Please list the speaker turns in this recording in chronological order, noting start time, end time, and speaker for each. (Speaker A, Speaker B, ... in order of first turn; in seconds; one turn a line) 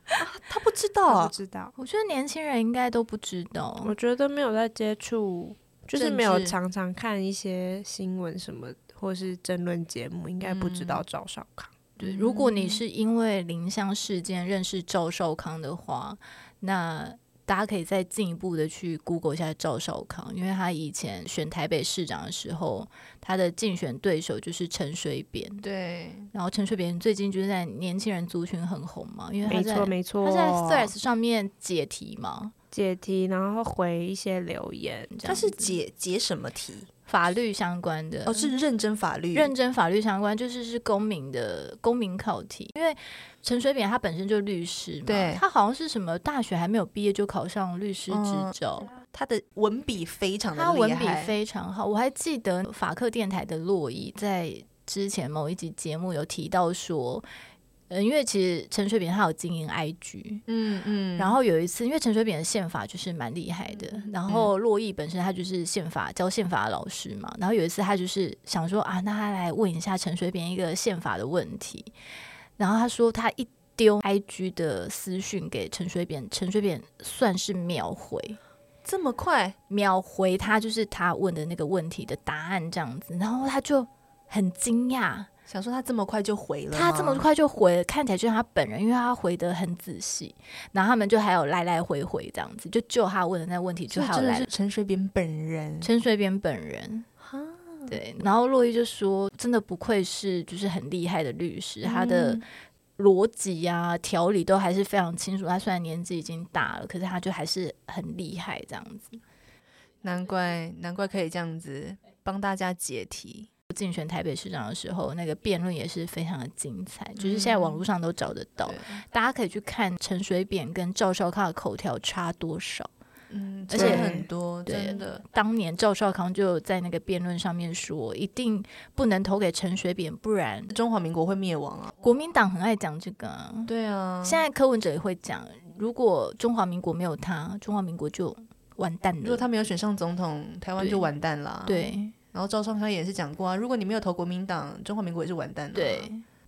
Speaker A: 0.2-1.3
Speaker B: 1.1-1.8
Speaker C: 1.8-4.0
Speaker B: 3.8-11.7
Speaker A: 6.0-6.6
Speaker A: 10.4-11.1
Speaker C: 12.0-25.6
Speaker A: 12.0-12.8
Speaker A: 25.6-26.3
Speaker C: 26.3-32.5
Speaker B: 29.5-30.9
Speaker B: 32.7-35.1
Speaker C: 35.1-35.8
Speaker A: 35.2-36.9
Speaker C: 37.1-38.5
Speaker A: 38.2-39.5
Speaker C: 39.3-48.9
Speaker A: 45.0-45.4
Speaker A: 48.1-51.4
Speaker C: 50.5-57.2
Speaker C: 57.9-60.4
Speaker A: 60.5-61.4
Speaker C: 61.2-71.9
Speaker A: 64.0-64.5
Speaker C: 72.6-78.4
Speaker A: 78.8-79.6
Speaker C: 79.7-85.3
Speaker A: 85.5-87.3
Speaker C: 86.7-94.5
Speaker A: 93.9-95.9
Speaker C: 95.8-97.1
Speaker A: 97.2-98.0
Speaker C: 97.9-102.4
Speaker A: 101.8-102.4
Speaker C: 103.0-109.2
Speaker A: 110.0-113.5
Speaker C: 113.7-122.9
Speaker A: 117.2-117.8
Speaker A: 118.6-119.0
Speaker A: 123.3-125.2
Speaker C: 123.7-130.8
Speaker B: 123.7-124.2
Speaker A: 130.7-132.0
Speaker C: 132.0-133.7
Speaker A: 133.7-134.5
Speaker C: 134.2-139.5
Speaker A: 139.2-146.1
Speaker C: 140.8-141.1
Speaker C: 141.7-142.2
Speaker C: 145.7-146.2